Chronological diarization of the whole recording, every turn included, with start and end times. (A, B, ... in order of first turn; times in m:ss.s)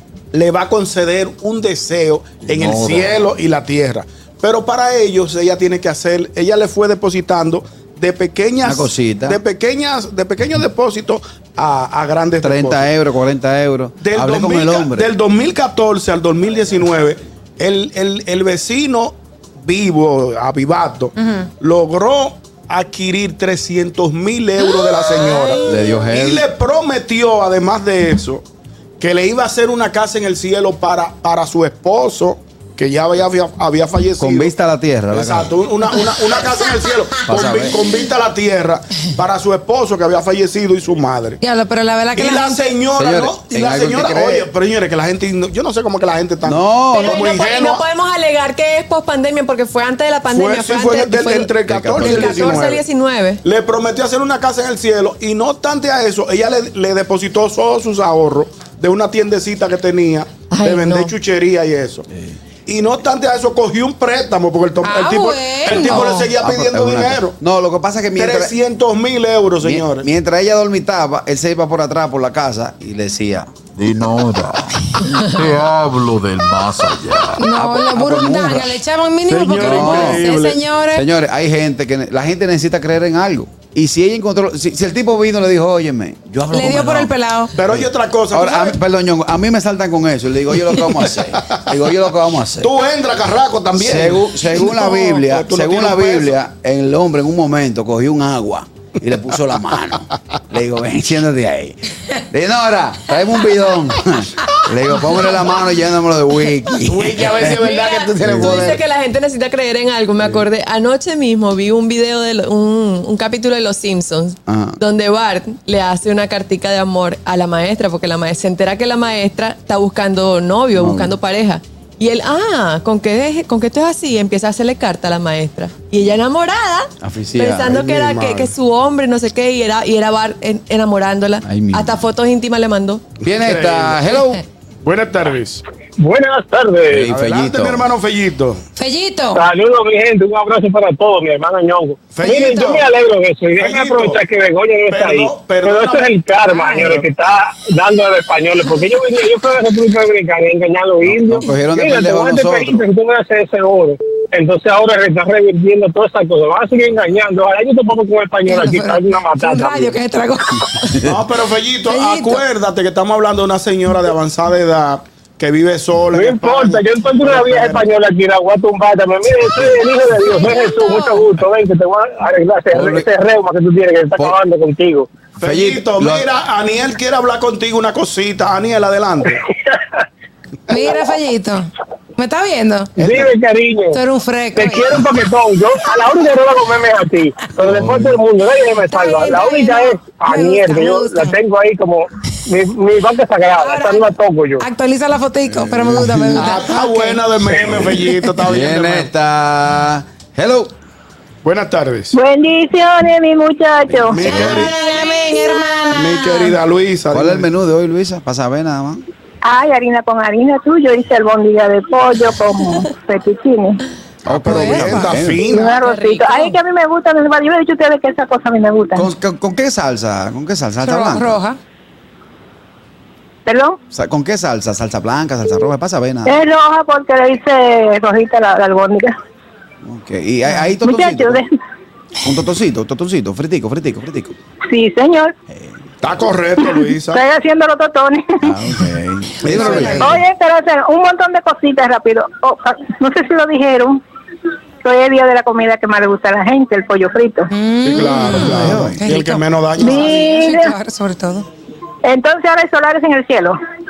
0:00.3-0:12.9 A
0:02.5-0:03.2 B
0:08.6-0:09.4 B
0:12.4-0:15.1 B
0:14.0-0:28.4 A
0:25.2-0:25.5 C
0:25.6-0:26.4 B
0:29.0-0:34.5 A
0:34.2-0:35.5 B
0:35.1-0:41.4 A
0:37.3-0:37.8 B
0:41.4-0:42.6 D
0:42.1-0:47.8 A
0:43.0-0:44.4 B
0:46.4-0:47.2 B
0:46.9-0:53.4 C
0:50.3-0:52.8 A
0:51.6-0:52.6 B
0:53.4-1:02.0 A
1:00.5-1:01.1 C
1:02.6-1:07.3 A
1:04.8-1:06.2 D
1:06.4-1:08.5 B
1:08.2-1:10.0 A
1:09.6-1:13.5 B
1:13.8-1:17.4 E
1:17.4-1:21.0 D
1:17.5-1:18.7 B
1:19.2-1:20.6 A
1:19.6-1:20.3 B
1:20.9-1:32.7 B
1:26.5-1:27.5 D
1:27.5-1:28.8 A
1:32.6-1:36.4 A
1:33.8-1:47.6 B
1:46.8-1:48.8 A
1:47.3-2:13.0 C
1:48.2-1:48.7 B
1:54.5-1:54.8 B
2:00.7-2:01.2 B
2:07.0-2:07.7 B
2:07.6-2:08.5 A
2:11.4-2:12.0 B
2:13.2-2:14.4 B
2:13.4-2:14.0 A
2:14.8-2:15.6 A
2:16.0-2:17.1 F
2:16.9-2:17.8 B
2:17.0-2:18.6 A
2:18.8-2:19.4 D
2:19.3-2:40.0 F
2:22.1-2:22.9 A
2:23.6-2:24.2 A
2:24.9-2:27.0 A
2:31.0-2:32.8 B
2:38.4-2:41.0 D
2:41.0-2:47.9 A
2:41.8-2:42.4 D
2:46.1-2:55.1 F
2:50.3-2:51.2 D
2:52.7-2:53.1 B
2:55.4-2:59.4 A
2:55.4-2:56.3 B
3:00.7-3:03.1 D
3:03.0-3:04.0 F
3:03.9-3:05.2 D
3:04.5-3:14.7 F
3:07.6-3:08.2 B
3:08.8-3:11.4 D
3:13.6-3:17.2 D
3:15.5-3:16.5 B
3:16.4-3:19.1 A
3:17.6-3:20.7 B
3:21.4-3:22.1 A
3:22.1-3:24.4 G
3:23.9-3:24.7 B
3:24.1-3:24.8 A
3:24.3-3:26.6 D
3:25.9-3:27.5 A
3:27.1-3:29.0 B
3:29.4-3:33.8 G
3:34.2-3:35.4 B
3:34.2-3:35.7 A
3:34.4-3:35.1 D
3:35.4-3:39.1 G
3:35.5-3:36.6 C
3:38.9-3:41.4 B
3:40.8-3:41.6 D
3:43.4-3:43.8 G
3:43.9-3:46.4 B
3:46.2-3:49.1 G
3:49.8-3:51.4 B
3:50.8-3:51.4 G
3:52.2-3:54.3 B
3:54.7-3:55.3 G
3:56.0-3:57.2 A
3:57.1-3:58.5 G
3:58.4-4:00.2 B
3:59.4-4:00.2 D
3:59.6-4:04.0 G
4:04.8-4:07.5 G
4:07.5-4:11.4 D
4:07.8-4:10.1 A
4:08.3-4:09.0 B
4:09.8-4:10.7 G
4:12.0-4:13.5 G